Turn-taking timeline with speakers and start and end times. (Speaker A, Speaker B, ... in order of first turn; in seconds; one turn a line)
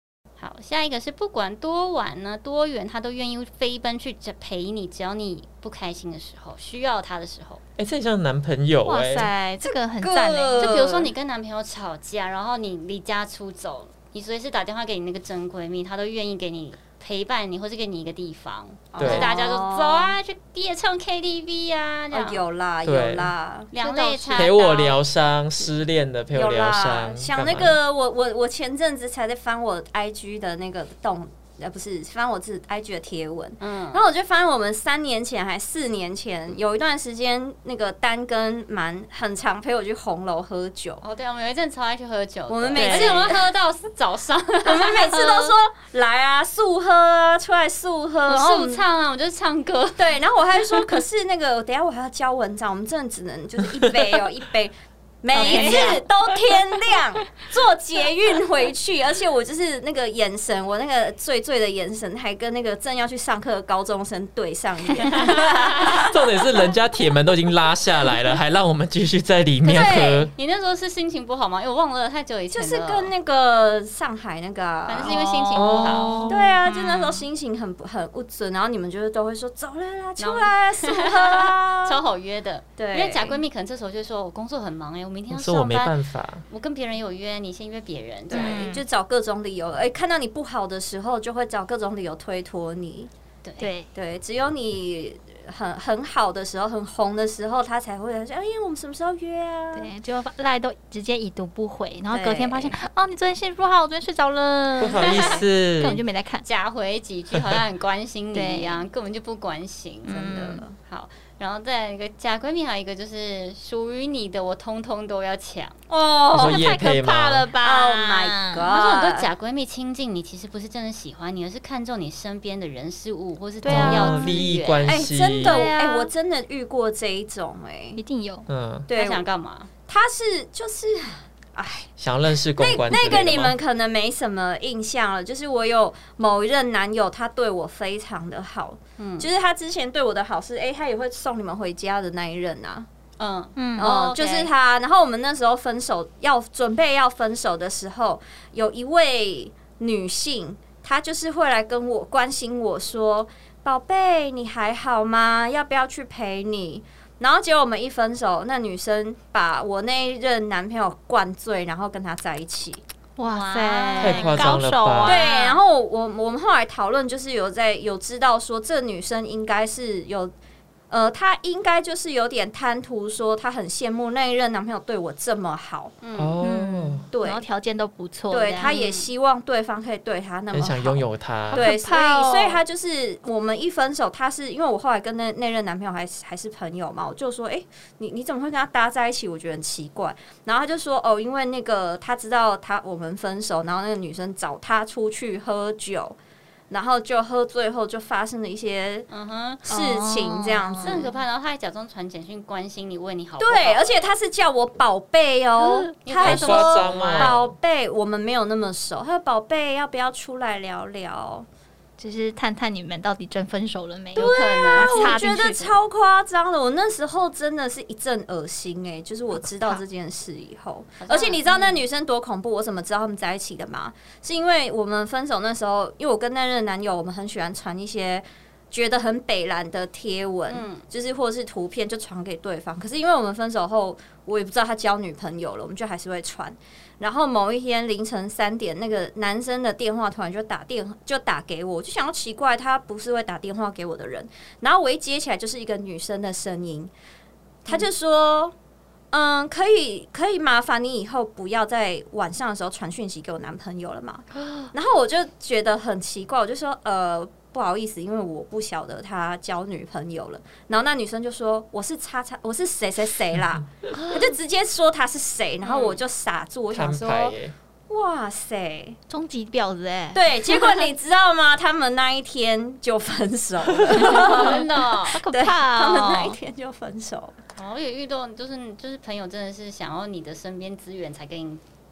Speaker A: 0.4-7.6
Speaker B: 7.8-9.3
Speaker C: 8.8-10.8
Speaker D: 9.6-11.1
Speaker A: 10.6-22.4
Speaker D: 18.9-20.1
Speaker B: 19.0-19.3
Speaker D: 22.1-23.7
Speaker B: 22.8-23.3
Speaker A: 23.7-25.0
Speaker C: 23.8-24.5
Speaker B: 24.3-27.8
Speaker D: 26.3-41.0
Speaker A: 33.6-34.0
Speaker A: 41.0-45.4
Speaker D: 42.5-43.4
Speaker C: 42.7-43.2
Speaker D: 44.6-48.8
Speaker A: 48.3-50.1
Speaker D: 50.0-66.4
Speaker A: 50.7-51.0
Speaker C: 55.3-56.6
Speaker A: 55.3-56.0
Speaker A: 65.0-66.0
Speaker B: 65.9-70.3
Speaker D: 69.6-70.3
Speaker A: 69.7-73.1
Speaker D: 72.5-75.2
Speaker A: 74.8-76.3
Speaker C: 75.0-77.2
Speaker B: 75.5-76.5
Speaker D: 76.3-82.0
Speaker A: 80.2-86.0
Speaker D: 82.8-83.4
Speaker B: 85.3-86.4
Speaker A: 86.5-88.7
Speaker D: 88.3-93.1
Speaker C: 88.3-88.8
Speaker A: 93.4-93.7
Speaker C: 93.6-93.9
Speaker D: 93.9-99.9
Speaker C: 99.7-106.4
Speaker D: 102.1-102.8
Speaker B: 104.8-106.0
Speaker A: 105.0-105.3
Speaker A: 106.4-110.2
Speaker C: 108.3-108.8
Speaker C: 110.1-110.6
Speaker D: 110.1-110.8
Speaker A: 110.8-115.8
Speaker D: 115.9-116.7
Speaker B: 116.3-117.5
Speaker C: 116.3-118.7
Speaker D: 117.6-119.3
Speaker A: 118.7-126.0
Speaker C: 123.6-124.5
Speaker B: 123.6-125.7
Speaker D: 124.8-128.0
Speaker C: 128.0-128.4
Speaker B: 128.5-128.9
Speaker D: 128.9-129.2
Speaker A: 128.9-129.7
Speaker D: 129.9-131.9
Speaker B: 132.0-133.6
Speaker D: 132.5-142.9
Speaker A: 139.0-139.3
Speaker A: 143.2-144.5
Speaker C: 143.6-143.9
Speaker D: 143.8-162.8
Speaker C: 163.2-165.6
Speaker A: 163.3-164.5
Speaker B: 164.0-165.3
Speaker D: 165.0-170.3
Speaker D: 170.9-175.9
Speaker A: 176.0-176.4
Speaker B: 176.2-177.1
Speaker C: 176.4-178.7
Speaker D: 177.1-177.4
Speaker D: 178.3-196.2
Speaker A: 178.6-179.1
Speaker B: 180.5-181.7
Speaker C: 181.5-182.6
Speaker D: 196.7-199.1
Speaker A: 199.1-199.6
Speaker D: 199.7-201.1
Speaker C: 199.7-201.1
Speaker A: 200.8-204.1
Speaker D: 203.4-211.4
Speaker A: 205.9-207.4
Speaker B: 206.2-207.5
Speaker C: 212.0-215.7
Speaker A: 214.1-215.4
Speaker D: 214.2-246.9
Speaker C: 219.3-219.8
Speaker A: 221.0-221.8
Speaker A: 230.5-230.8
Speaker D: 247.6-248.5
Speaker D: 249.1-267.4
Speaker A: 265.6-266.0
Speaker B: 266.7-267.5
Speaker D: 267.9-269.0
Speaker C: 269.1-270.7
Speaker D: 270.1-274.7
Speaker A: 273.9-275.2
Speaker C: 274.0-274.4
Speaker C: 275.1-276.4
Speaker D: 275.2-277.4
Speaker A: 277.6-281.6